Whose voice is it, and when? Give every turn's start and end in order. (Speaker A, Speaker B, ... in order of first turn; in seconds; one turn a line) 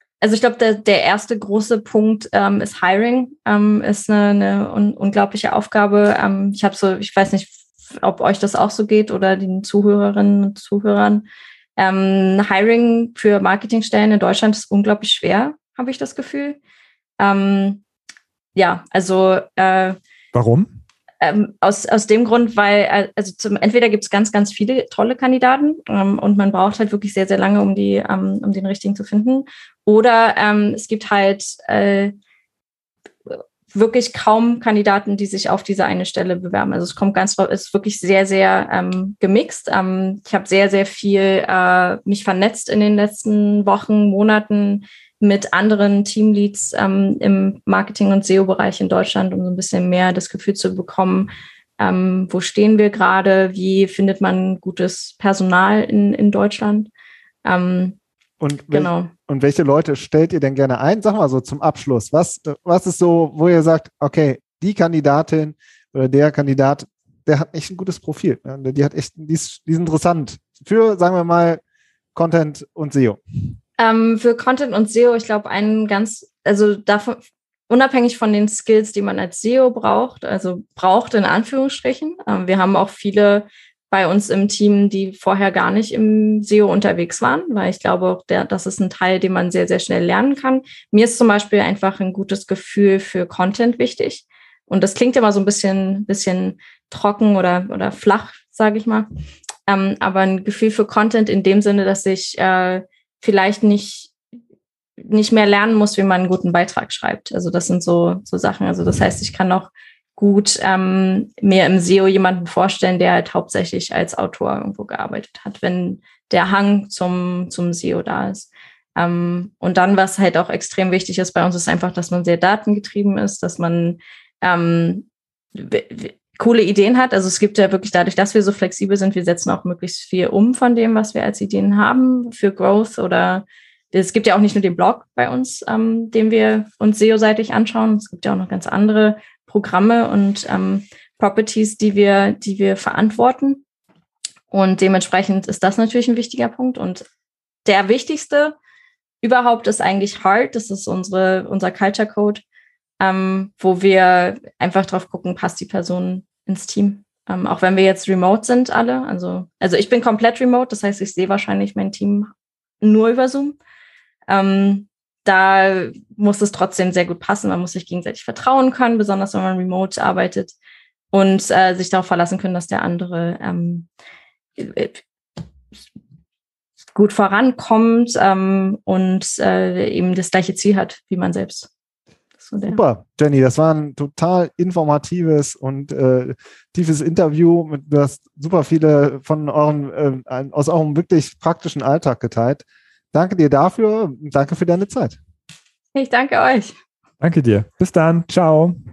Speaker A: 0.2-11.2
Speaker A: 11.8-16.6
Speaker A: 17.2-17.8
Speaker A: 18.6-20.0
Speaker B: 20.3-20.7
Speaker A: 21.2-32.1
Speaker A: 33.3-56.9
Speaker A: 57.4-58.0
Speaker C: 58.4-71.6
Speaker A: 58.7-59.1
Speaker C: 72.1-73.2
Speaker A: 73.8-99.1
Speaker A: 99.7-104.1
Speaker A: 105.0-143.6
Speaker A: 144.5-147.0
Speaker A: 147.6-148.6
Speaker A: 149.2-152.4
Speaker A: 153.0-162.3
Speaker A: 162.8-163.6
Speaker A: 164.3-170.5
Speaker A: 171.1-173.8
Speaker A: 174.6-175.0
Speaker A: 176.9-181.7
Speaker A: 182.4-182.8
Speaker C: 182.7-195.2
Speaker A: 195.9-196.7
Speaker B: 197.2-198.8